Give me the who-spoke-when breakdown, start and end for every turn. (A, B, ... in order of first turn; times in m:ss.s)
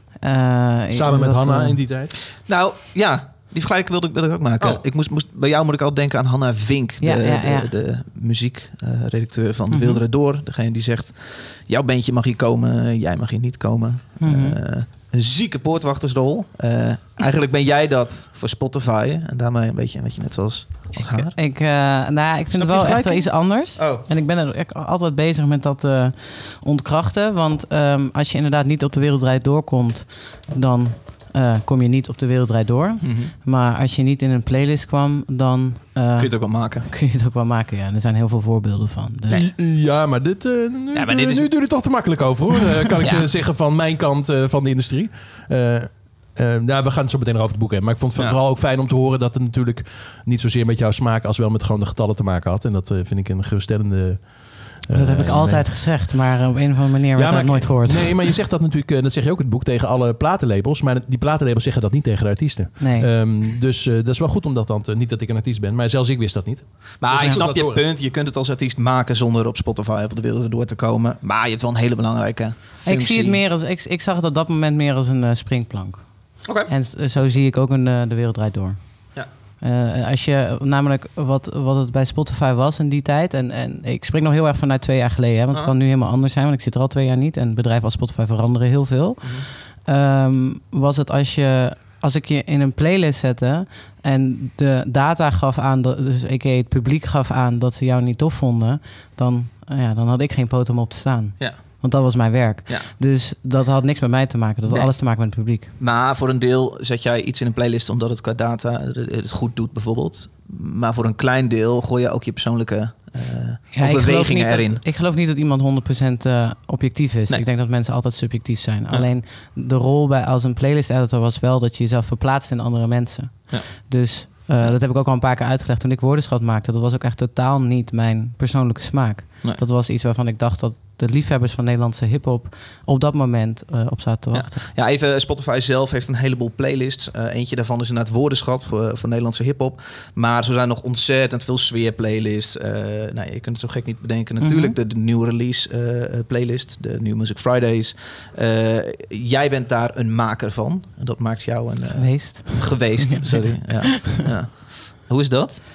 0:00.2-0:01.8 A
0:00.9-0:02.1 B
0:02.4-0:21.3 C
0:07.0-0:07.7 A
0:09.7-0:10.0 A
0:14.2-0:14.6 A
0:20.9-0:39.4 A
0:22.6-0:23.2 B
0:23.8-0:24.0 C
0:33.0-0:33.3 C
0:36.2-0:36.9 C
0:39.3-0:55.7 B
0:40.9-0:41.7 C
0:42.9-0:43.3 C
0:54.9-0:58.3 A
0:57.2-1:07.8 B
1:02.8-1:03.1 A
1:07.0-1:13.4 C
1:12.8-1:45.7 A
1:16.4-1:16.7 C
1:29.2-1:29.5 C
1:44.7-1:54.8 C
1:53.7-2:14.6 A
2:14.3-2:35.6 C
2:24.4-2:24.8 A
2:31.9-2:34.2 A